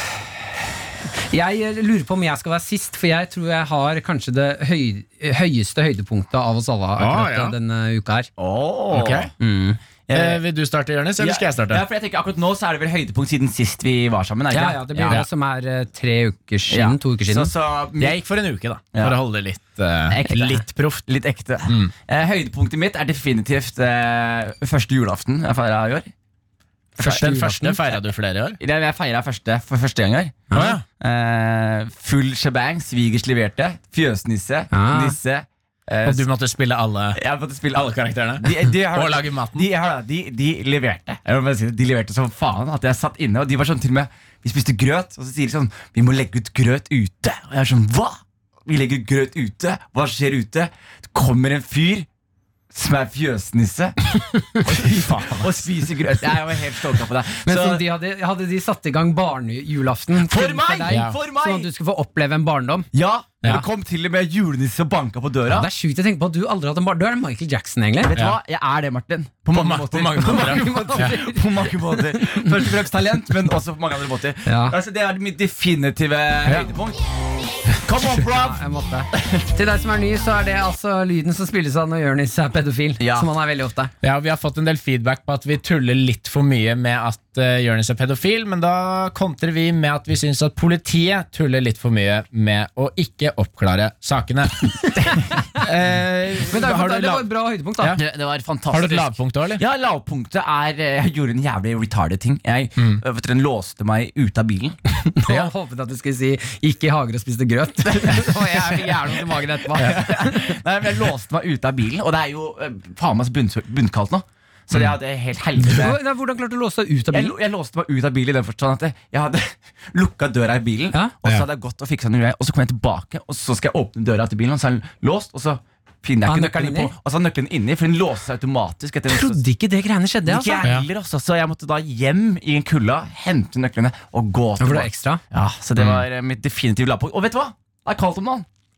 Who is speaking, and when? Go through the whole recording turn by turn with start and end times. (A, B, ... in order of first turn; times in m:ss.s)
0:01.3-0:08.3 A
0:07.0-0:07.6 B
0:08.4-0:09.3 C
0:08.9-0:09.3 B
0:09.4-0:09.8 A
0:10.1-0:10.4 C
0:10.1-0:11.8 B
0:11.2-0:15.2 C
0:14.5-0:17.5 A
0:16.7-0:18.2 C
0:18.0-0:21.0 B
0:18.9-0:19.2 C
0:20.1-0:26.1 C
0:21.7-0:21.9 B
0:27.0-0:27.8 A
0:27.0-0:27.3 C
0:27.1-0:28.6 B
0:28.6-0:36.2 C
0:30.5-0:30.8 A
0:30.5-0:30.8 B
0:34.7-0:35.2 A
0:36.0-0:37.2 B
0:37.1-0:52.1 C
0:37.7-0:39.7 B
0:52.7-0:54.0 C
0:54.6-0:57.8 C
0:54.7-0:55.5 B
0:57.4-1:02.9 A
1:00.2-1:01.7 C
1:00.9-1:01.2 B
1:02.9-1:05.7 C
1:05.5-1:08.1 A
1:08.0-1:17.0 C
1:09.5-1:11.2 B
1:10.2-1:11.4 A
1:12.0-1:12.6 A
1:14.4-1:14.8 A
1:17.7-1:18.6 C
1:18.3-1:23.9 A
1:19.1-1:19.4 C
1:23.0-1:23.3 C
1:24.0-1:37.2 B
1:35.0-1:35.6 A
1:36.5-1:38.0 A
1:37.9-1:44.8 C
1:38.7-1:39.6 B
1:45.0-1:50.4 A
1:45.2-1:45.5 B
1:47.9-1:56.0 C
1:55.6-1:57.3 A
1:57.1-2:09.4 C
2:06.2-2:06.9 A
2:09.1-2:10.6 A
2:10.2-2:18.4 C
2:14.6-2:15.2 A
2:15.8-2:16.0 B